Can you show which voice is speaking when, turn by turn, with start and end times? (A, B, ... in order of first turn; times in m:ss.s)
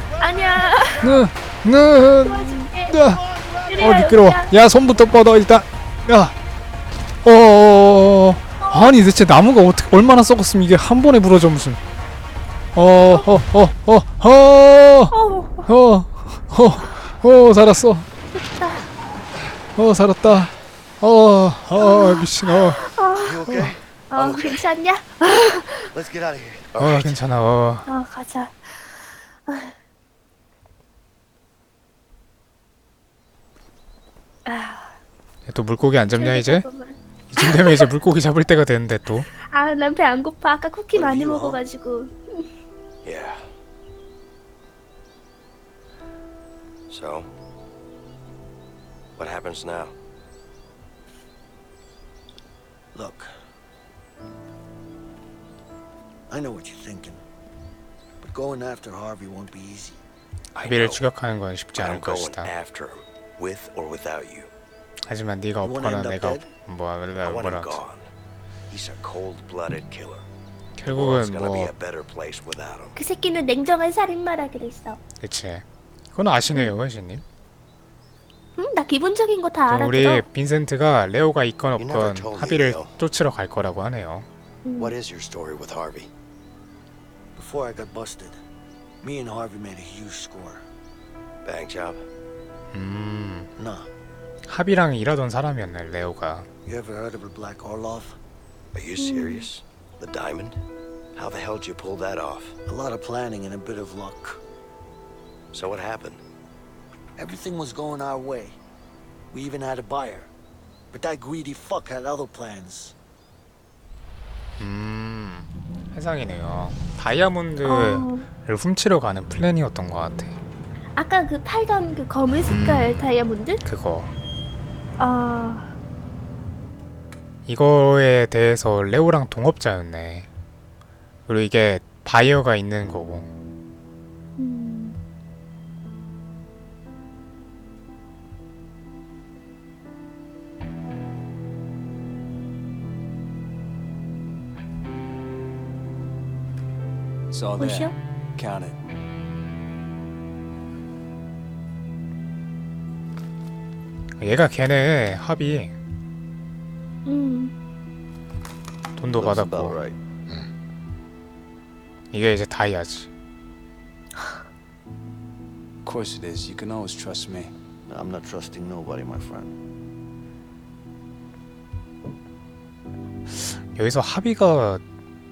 0:00.2-0:01.2 A
0:01.0-0:03.2 B
0:02.2-0:03.0 A
0:03.6-0:04.5 A
0:03.8-0:06.3 B
0:07.2-0:11.8 B
0:08.6-0:08.9 A
0:12.7-0:15.1 B
0:15.1-0:15.6 A
0:15.7-0:18.0 B
0:18.3-0:18.9 A
0:19.8-0:22.8 B
0:21.8-0:23.6 A
0:23.2-0:24.4 C
0:24.1-0:25.9 A
0:25.9-0:26.7 C
0:26.7-0:27.2 D
0:26.8-0:27.9 B
0:27.9-0:28.8 A
0:29.5-0:29.7 A
0:34.4-0:34.9 A
0:35.5-0:36.6 B
0:36.1-0:37.9 A
0:37.3-0:39.3 B
0:39.4-0:42.4 A
0:41.0-0:41.5 D
0:41.0-0:41.5 C
0:43.0-0:43.5 D
0:46.9-0:47.3 D
0:49.2-0:49.9 D
0:52.9-0:53.3 C
0:56.3-0:57.2 C
0:58.2-1:00.0 C
1:00.5-1:01.0 D
1:00.6-1:02.5 B
1:01.8-1:04.5 D
1:05.1-1:07.8 B
1:05.6-1:06.5 C
1:07.2-1:08.1 D
1:08.7-1:10.2 D
1:10.8-1:11.7 B
1:10.9-1:13.0 D
1:13.0-1:15.0 A
1:15.2-1:17.2 B
1:18.6-1:20.2 A
1:19.7-1:24.3 B
1:21.8-1:22.9 D
1:24.6-1:24.9 A
1:24.8-1:26.1 D
1:27.4-1:28.4 C
1:29.0-1:30.6 C
1:31.4-1:32.0 D
1:32.7-1:33.5 B
1:33.6-1:33.9 C
1:34.5-1:36.5 B
1:36.6-1:38.2 C
1:38.7-1:40.6 D
1:39.0-1:39.5 A
1:41.1-1:42.6 D
1:42.7-1:44.4 C
1:45.5-1:46.2 D
1:47.2-1:48.6 C
1:49.3-1:50.3 C
1:50.9-1:52.9 C
1:54.6-2:00.3 B
1:57.6-1:58.3 A
2:01.0-2:03.6 A
2:02.5-2:03.0 B
2:03.6-2:04.1 B
2:05.0-2:05.7 A
2:07.5-2:10.3 B
2:11.3-2:13.3 B
2:14.4-2:15.0 A
2:27.3-2:28.8 E
2:27.6-2:28.0 A
2:34.2-2:35.7 B
2:37.0-2:37.5 A
2:39.0-2:39.8 B
2:39.2-2:39.9 C
2:39.2-2:39.8 D
2:42.1-2:43.1 B
2:45.8-2:47.5 E
2:47.8-2:49.5 C
2:53.3-2:54.8 B